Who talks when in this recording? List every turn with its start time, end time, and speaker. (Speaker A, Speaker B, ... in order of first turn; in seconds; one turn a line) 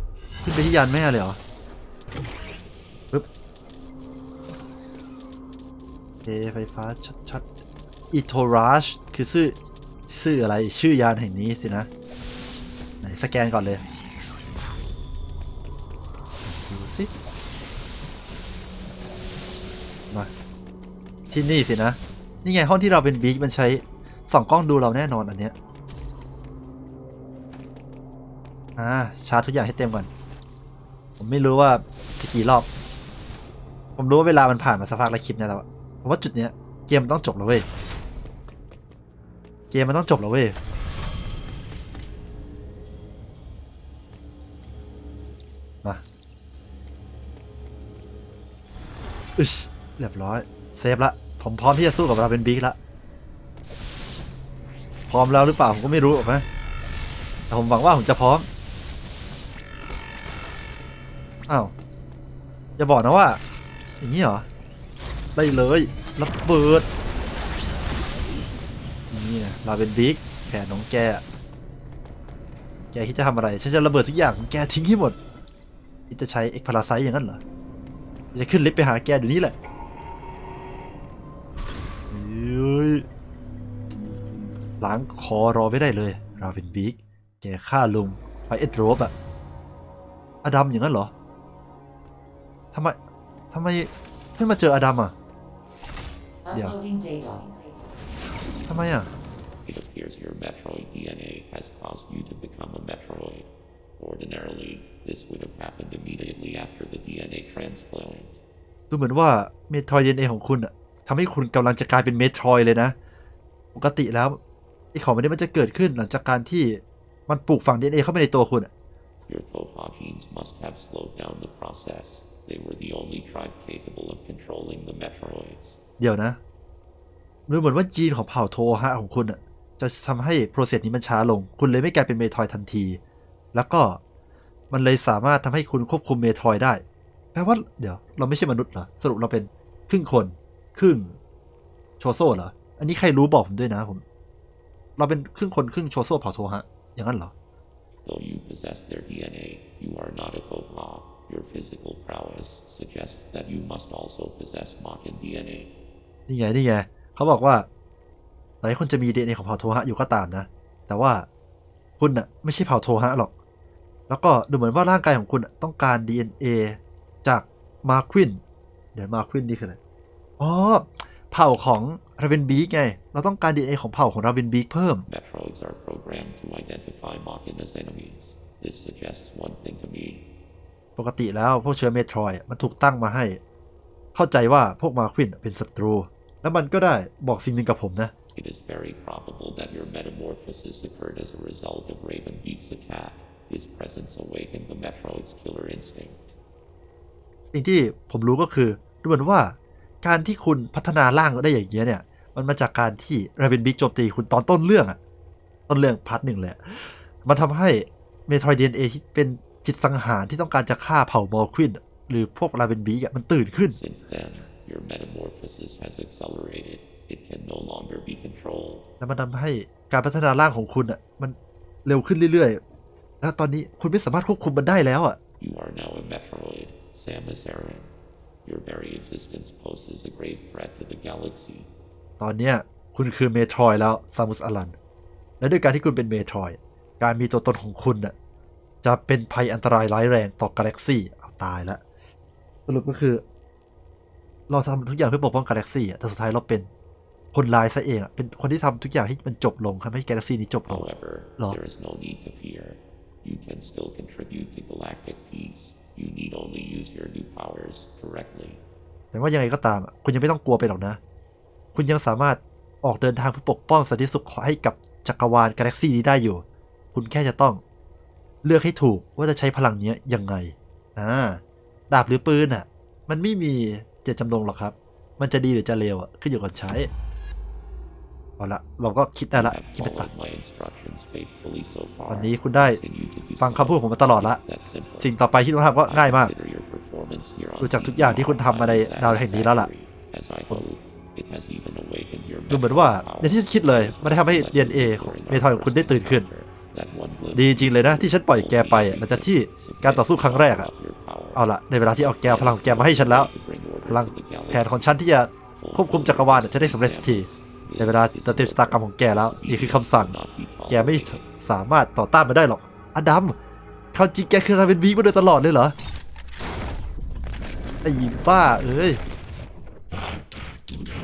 Speaker A: 0.4-1.4
Speaker A: 6.2-7.5
Speaker A: 8.1-11.9
Speaker A: 13.0-13.8
Speaker A: 16.4-17.1
Speaker A: 21.3-25.5
Speaker A: 28.8-30.1
Speaker A: 31.2-32.7
Speaker A: 34.0-37.7
Speaker A: 39.7-40.6
Speaker A: 49.4-52.8
Speaker A: 55.1-56.5
Speaker A: 57.5-58.5
Speaker A: 61.5-61.7
Speaker A: 62.8-63.4
Speaker A: 64.0-64.5
Speaker A: 65.3-66.9
Speaker A: 69.1-71.2
Speaker A: 72.9-75.2
Speaker A: 76.1-77.4
Speaker A: 78.3-79.5
Speaker A: 82.1-83.0
Speaker A: 84.8-89.1
Speaker A: 90.4-91.1
Speaker A: 92.7-93.0
Speaker A: 93.5-95.1
Speaker A: 96.5-96.8
Speaker A: 98.7-99.1
Speaker B: 99.6-108.4
Speaker A: 108.9-112.9
Speaker A: 113.7-114.4
Speaker A: 114.9-118.7
Speaker B: 119.3-125.8
Speaker A: 126.0-126.4
Speaker A: 127.5-133.0
Speaker A: 133.5-134.0
Speaker A: 134.7-136.8
Speaker A: 137.3-141.2
Speaker A: 142.0-144.0
Speaker A: 145.0-147.3
Speaker B: 148.0-155.7
Speaker A: 156.3-157.7
Speaker A: 158.6-161.3
Speaker A: 162.0-163.3
Speaker A: 164.1-168.4
Speaker A: 168.9-169.8
Speaker A: 170.4-175.1
Speaker B: 175.1-180.2
Speaker A: 180.9-183.4
Speaker A: 184.1-188.1
Speaker B: 188.3-196.2
Speaker A: 197.5-205.0
Speaker A: 205.7-213.8
Speaker B: 213.7-218.9
Speaker A: 219.0-222.6
Speaker A: 223.2-225.2
Speaker B: 225.4-227.9
Speaker B: 228.4-231.7
Speaker A: 232.2-234.8
Speaker A: 235.4-238.1
Speaker A: 238.8-241.8
Speaker A: 242.7-243.2
Speaker A: 244.5-246.7
Speaker A: 247.3-251.6
Speaker B: 250.7-258.6
Speaker A: 259.1-261.0
Speaker A: 261.7-267.6
Speaker A: 268.4-276.9
Speaker A: 278.4-280.1
Speaker B: 279.3-285.1
Speaker A: 282.1-282.8
Speaker A: 283.4-284.4
Speaker A: 285.0-286.3
Speaker B: 285.8-301.4
Speaker A: 287.6-289.7
Speaker A: 292.5-296.3
Speaker A: 297.3-300.7
Speaker A: 301.3-303.3
Speaker B: 302.0-304.9
Speaker A: 303.9-307.3
Speaker B: 305.4-311.2
Speaker A: 307.8-310.1
Speaker A: 310.7-313.4
Speaker A: 313.9-315.7
Speaker A: 317.8-319.0